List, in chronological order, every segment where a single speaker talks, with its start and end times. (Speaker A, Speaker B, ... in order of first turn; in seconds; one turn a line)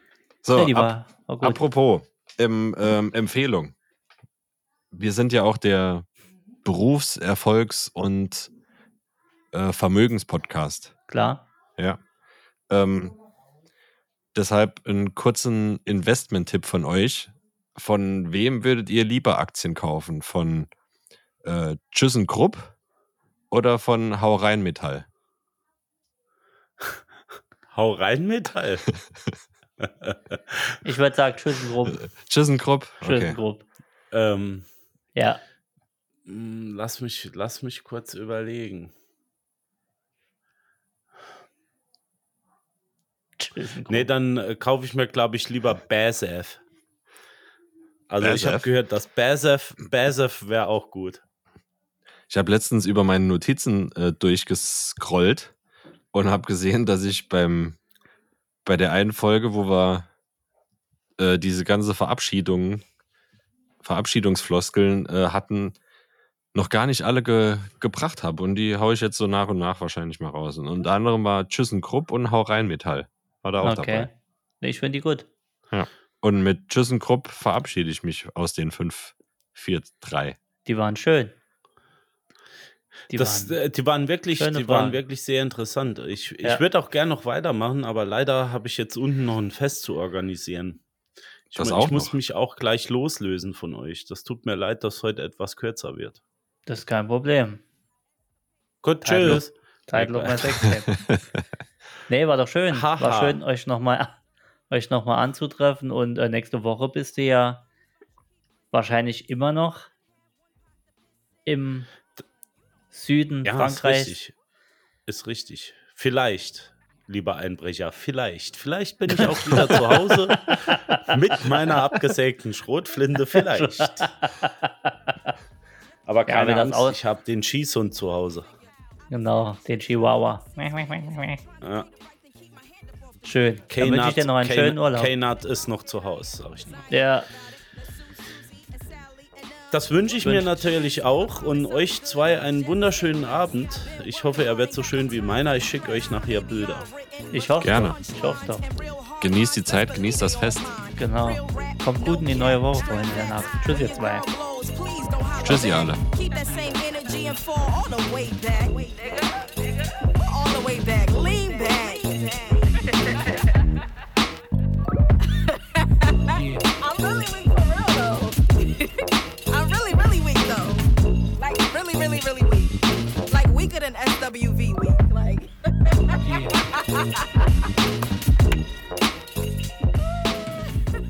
Speaker A: 0.4-3.7
Speaker B: 0.5-1.6
Speaker A: 4.9-6.1
Speaker A: 6.6-8.5
Speaker A: 9.5-10.9
Speaker B: 11.1-11.4
Speaker A: 12.7-13.2
Speaker A: 14.3-20.7
Speaker A: 21.4-22.7
Speaker A: 23.5-25.1
Speaker C: 27.7-28.9
Speaker C: 29.8-30.4
Speaker B: 30.8-32.1
Speaker A: 31.9-33.4
Speaker B: 33.0-33.6
Speaker C: 34.1-34.7
Speaker B: 35.1-35.4
Speaker C: 36.3-38.9
Speaker B: 43.4-44.1
Speaker C: 43.9-46.6
Speaker C: 48.1-51.2
Speaker A: 48.2-48.7
Speaker A: 52.3-55.5
Speaker A: 56.1-57.8
Speaker A: 58.6-60.1
Speaker A: 61.2-62.8
Speaker A: 63.8-65.8
Speaker A: 66.5-74.1
Speaker B: 73.6-75.3
Speaker A: 75.7-80.4
Speaker B: 80.7-81.3
Speaker B: 83.1-83.6
Speaker C: 83.1-90.8
Speaker B: 84.4-85.0
Speaker C: 91.5-96.2
Speaker A: 91.5-92.1
Speaker B: 96.7-97.6
Speaker C: 98.8-100.6
Speaker B: 99.0-100.9
Speaker A: 100.9-101.2
Speaker B: 102.1-104.2
Speaker C: 102.7-103.4
Speaker B: 104.7-107.7
Speaker B: 108.7-109.9
Speaker B: 111.5-111.9
Speaker B: 112.9-114.2
Speaker C: 113.5-114.3
Speaker C: 115.1-124.1
Speaker B: 119.1-122.0
Speaker B: 123.3-125.3
Speaker C: 126.1-128.5
Speaker B: 126.3-127.0
Speaker B: 129.1-131.4
Speaker C: 131.6-131.9
Speaker D: 132.3-133.2
Speaker B: 133.2-135.1
Speaker C: 133.7-136.9
Speaker B: 136.9-137.3
Speaker D: 138.9-139.7
Speaker C: 139.7-146.9
Speaker B: 140.2-140.7
Speaker D: 146.8-163.5
Speaker B: 147.3-148.6
Speaker A: 147.6-148.0
Speaker A: 149.2-150.7
Speaker B: 151.0-154.2
Speaker A: 155.4-156.0
Speaker D: 165.5-170.8
Speaker D: 171.4-177.3